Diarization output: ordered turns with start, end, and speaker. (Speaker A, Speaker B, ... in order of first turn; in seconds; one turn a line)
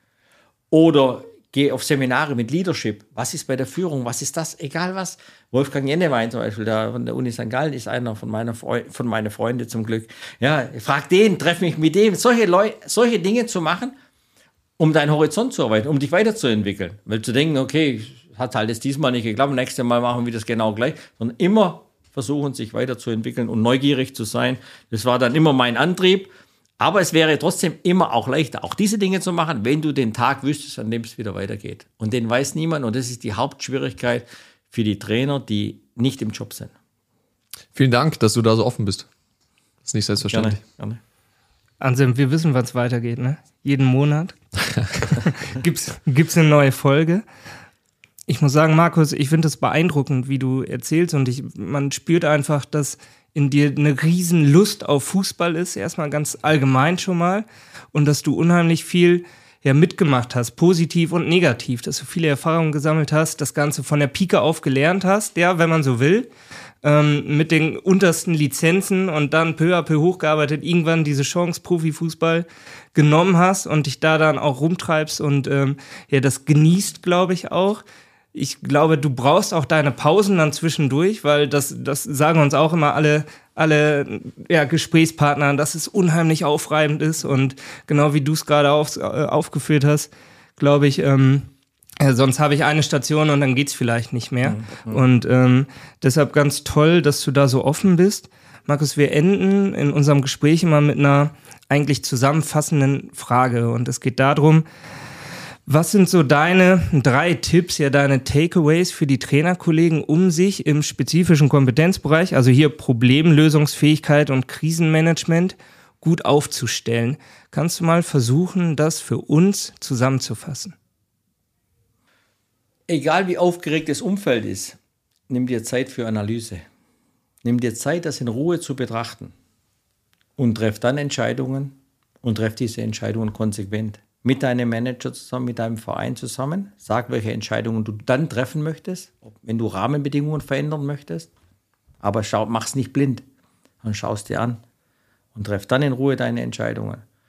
Speaker A: 0.7-13.9
Speaker A: 14.8-36.7
Speaker B: 37.7-39.1
Speaker B: 39.8-40.6
Speaker A: 40.3-41.0
Speaker C: 41.8-44.4
Speaker C: 44.9-47.2
Speaker C: 48.3-66.3
Speaker C: 66.8-77.8
Speaker C: 78.3-91.5
Speaker C: 92.0-104.6
Speaker A: 94.4-95.0
Speaker C: 105.7-120.7
Speaker A: 122.9-124.8
Speaker A: 125.3-126.6
Speaker A: 127.4-129.3
Speaker A: 130.4-141.3
Speaker A: 142.0-143.2
Speaker A: 143.8-144.6
Speaker A: 145.3-147.0